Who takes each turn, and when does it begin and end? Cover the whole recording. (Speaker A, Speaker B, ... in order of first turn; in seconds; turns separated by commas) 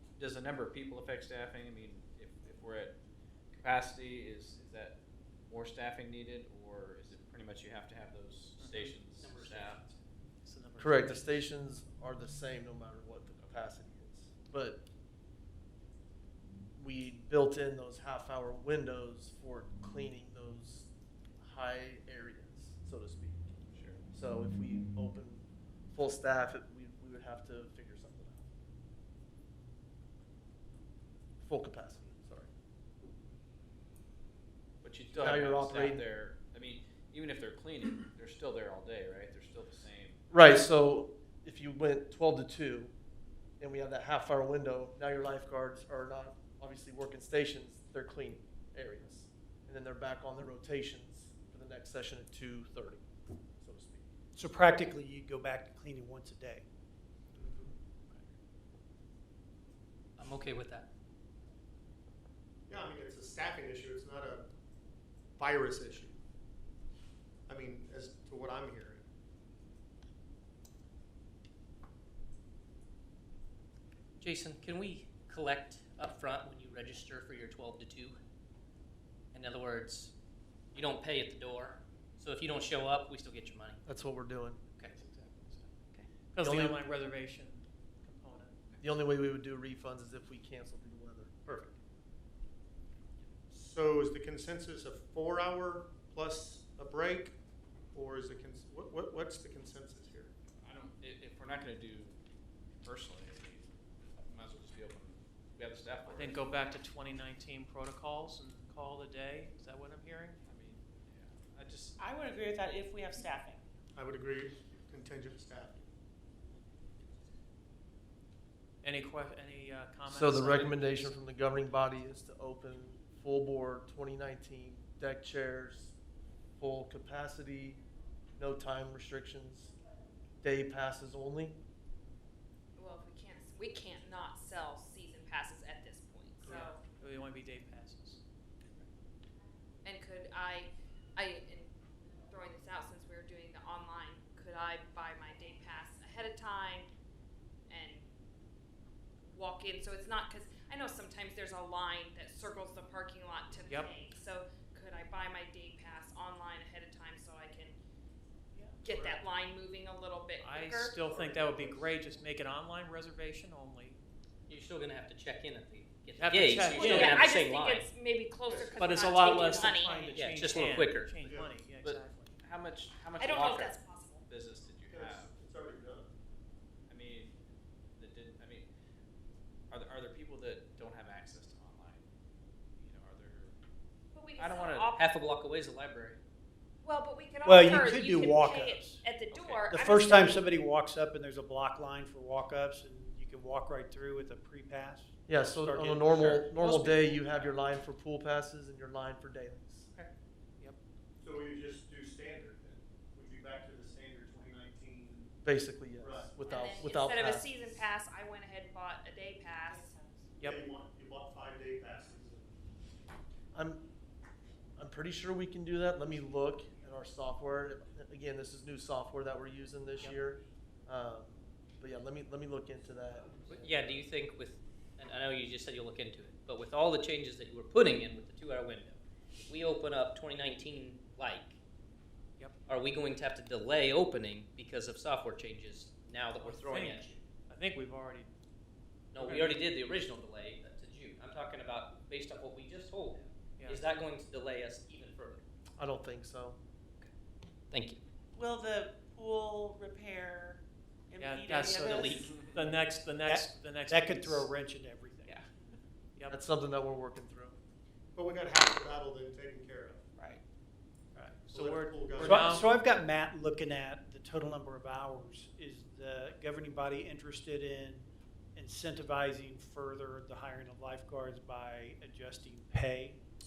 Speaker A: 0.2-3.0, Speaker A: 3.5-9.8, Speaker B: 8.6-9.0, Speaker C: 9.2-9.8, Speaker B: 10.4-11.5, Speaker D: 10.8-14.8, Speaker A: 13.4-13.7, Speaker D: 16.8-20.9, Speaker D: 21.4-23.5, Speaker A: 23.7-24.0, Speaker D: 24.1-28.5, Speaker D: 31.4-32.5, Speaker A: 34.8-40.2, Speaker D: 35.1-36.0, Speaker D: 40.3-42.9, Speaker D: 43.6-53.1, Speaker D: 53.6-54.1, Speaker E: 54.4-56.6, Speaker F: 57.3-57.7, Speaker C: 60.2-60.9, Speaker F: 62.7-64.5, Speaker F: 65.4-66.2, Speaker F: 67.5-69.0, Speaker C: 74.2-78.2, Speaker C: 79.3-80.1, Speaker C: 80.7-83.8, Speaker D: 83.9-84.6, Speaker B: 84.9-85.7, Speaker B: 86.3-88.6, Speaker D: 86.4-86.8, Speaker D: 88.8-91.7, Speaker F: 93.5-97.3, Speaker F: 97.9-100.3, Speaker A: 100.6-102.2, Speaker A: 102.8-103.7, Speaker A: 104.2-106.4, Speaker B: 106.1-110.4, Speaker A: 110.5-111.9, Speaker G: 112.0-113.6, Speaker F: 114.0-115.9, Speaker B: 118.8-121.2, Speaker D: 120.1-125.9, Speaker D: 126.6-127.8, Speaker D: 128.4-129.7, Speaker D: 130.4-131.6, Speaker H: 132.8-136.8, Speaker B: 136.5-138.2, Speaker H: 139.8-141.7, Speaker H: 142.3-146.9, Speaker H: 147.7-148.1, Speaker H: 149.2-157.8, Speaker H: 158.8-161.0, Speaker F: 158.8-159.2, Speaker B: 160.4-164.0, Speaker F: 161.0-162.0, Speaker C: 164.5-167.9, Speaker B: 166.2-167.4, Speaker H: 166.7-170.2, Speaker F: 168.5-168.9, Speaker B: 168.7-172.3, Speaker C: 170.2-171.1, Speaker F: 171.2-171.6, Speaker A: 171.8-175.3, Speaker H: 173.2-174.2, Speaker F: 174.9-176.1, Speaker A: 176.9-177.3, Speaker A: 178.0-178.7, Speaker A: 179.7-182.1, Speaker A: 182.8-183.6, Speaker H: 184.1-185.1, Speaker A: 184.4-184.9, Speaker C: 185.0-186.2, Speaker H: 186.8-190.4, Speaker E: 187.4-189.1, Speaker E: 189.7-196.5, Speaker D: 195.3-199.9, Speaker A: 196.6-197.2, Speaker F: 201.2-205.3, Speaker D: 205.4-207.7, Speaker F: 206.0-206.4, Speaker H: 206.4-209.9, Speaker G: 209.7-210.3, Speaker B: 210.4-210.6, Speaker F: 210.4-212.5, Speaker D: 213.5-213.8, Speaker D: 214.8-224.0, Speaker C: 223.5-231.6, Speaker C: 232.7-237.2, Speaker B: 236.4-238.3, Speaker C: 239.1-245.4, Speaker B: 239.2-239.6, Speaker B: 243.6-243.8, Speaker D: 245.8-246.6, Speaker C: 247.7-248.0, Speaker G: 248.3-252.5, Speaker B: 251.2-254.5, Speaker C: 251.9-252.2, Speaker E: 253.2-255.4, Speaker B: 256.1-256.4, Speaker D: 256.3-257.6, Speaker F: 258.1-260.0, Speaker E: 261.1-261.4, Speaker B: 261.2-262.7, Speaker F: 261.5-262.7, Speaker E: 262.1-273.2